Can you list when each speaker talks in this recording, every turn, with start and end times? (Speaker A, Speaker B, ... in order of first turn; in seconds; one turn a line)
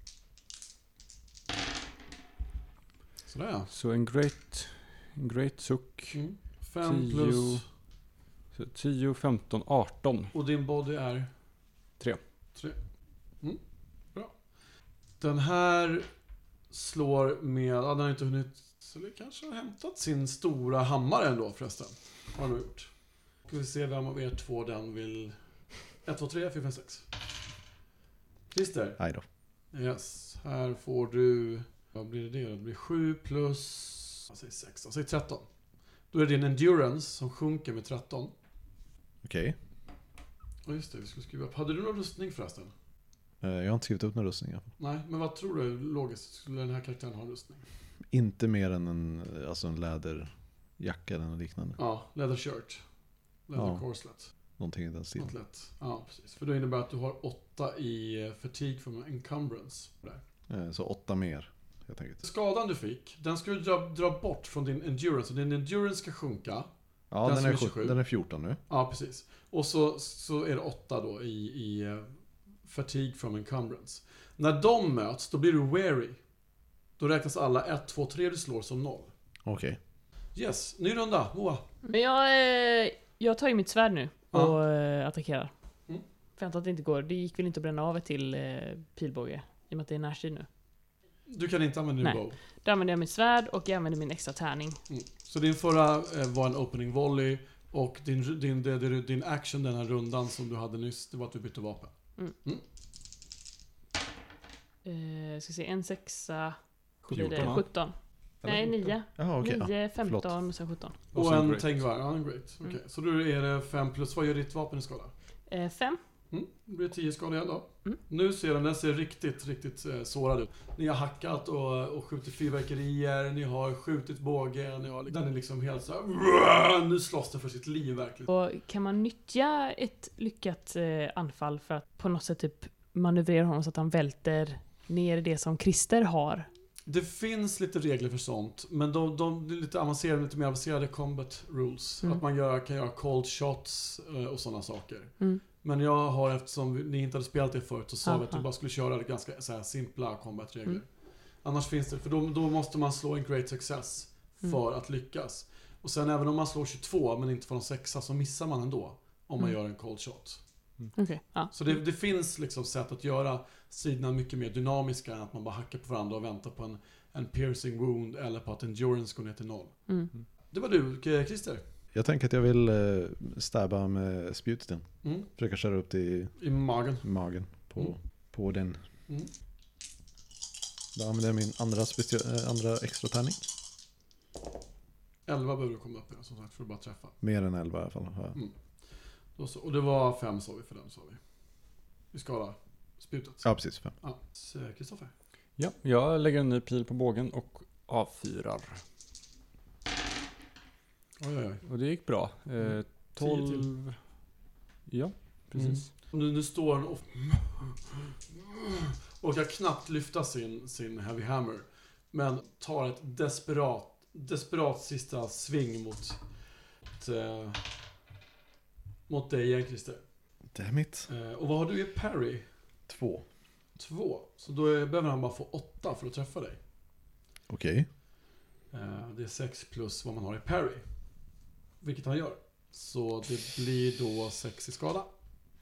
Speaker A: 3.3-3.7
Speaker B: 3.7-6.2
Speaker A: 6.1-7.7
Speaker B: 6.8-7.6
Speaker B: 8.5-10.3
Speaker A: 10.3-11.3
Speaker A: 15.2-16.1
Speaker A: 16.7-22.9
Speaker A: 23.4-25.4
Speaker A: 25.9-27.1
Speaker A: 28.5-29.0
Speaker C: 29.0-29.2
Speaker A: 29.7-35.5
Speaker A: 36.1-38.3
Speaker C: 39.2-39.6
Speaker A: 40.6-42.7
Speaker C: 43.4-44.7
Speaker A: 44.8-47.6
Speaker C: 48.1-51.8
Speaker A: 51.8-52.8
Speaker A: 53.5-54.3
Speaker C: 53.5-53.8
Speaker C: 54.6-55.3
Speaker A: 55.2-60.2
Speaker C: 60.5-62.2
Speaker A: 62.2-66.7
Speaker C: 67.1-68.6
Speaker A: 67.2-68.0
Speaker A: 68.7-72.1
Speaker A: 72.6-76.2
Speaker A: 77.0-79.1
Speaker C: 79.5-79.8
Speaker A: 80.3-81.6
Speaker D: 81.8-85.5
Speaker D: 86.4-90.5
Speaker A: 91.3-92.4
Speaker D: 92.0-94.8
Speaker A: 94.9-102.6
Speaker D: 104.8-111.0
Speaker B: 107.1-107.6
Speaker C: 107.2-107.6
Speaker C: 108.4-110.3
Speaker B: 111.1-111.8
Speaker A: 111.1-115.1
Speaker D: 115.5-116.0
Speaker A: 116.3-128.3
Speaker D: 128.3-136.5
Speaker A: 136.9-150.9
Speaker D: 148.1-148.4
Speaker A: 151.4-160.4
Speaker D: 160.9-161.5
Speaker A: 161.5-169.9
Speaker A: 170.5-171.6
Speaker C: 171.9-176.5
Speaker A: 175.0-175.3
Speaker A: 176.4-177.9
Speaker C: 177.0-178.8
Speaker C: 180.9-183.5
Speaker A: 185.3-187.1
Speaker C: 187.2-188.4
Speaker A: 189.4-191.2
Speaker A: 192.1-193.5
Speaker C: 193.4-193.9
Speaker A: 194.0-195.1
Speaker B: 195.6-198.8
Speaker A: 201.2-201.6
Speaker B: 201.7-204.0
Speaker A: 202.6-203.7
Speaker B: 204.9-205.9
Speaker A: 205.6-216.2
Speaker A: 216.9-217.7
Speaker A: 219.1-220.0
Speaker C: 220.5-221.1
Speaker A: 221.1-222.4
Speaker C: 222.9-223.2
Speaker A: 223.8-226.6
Speaker C: 227.5-227.9
Speaker A: 228.7-230.8
Speaker A: 231.8-235.1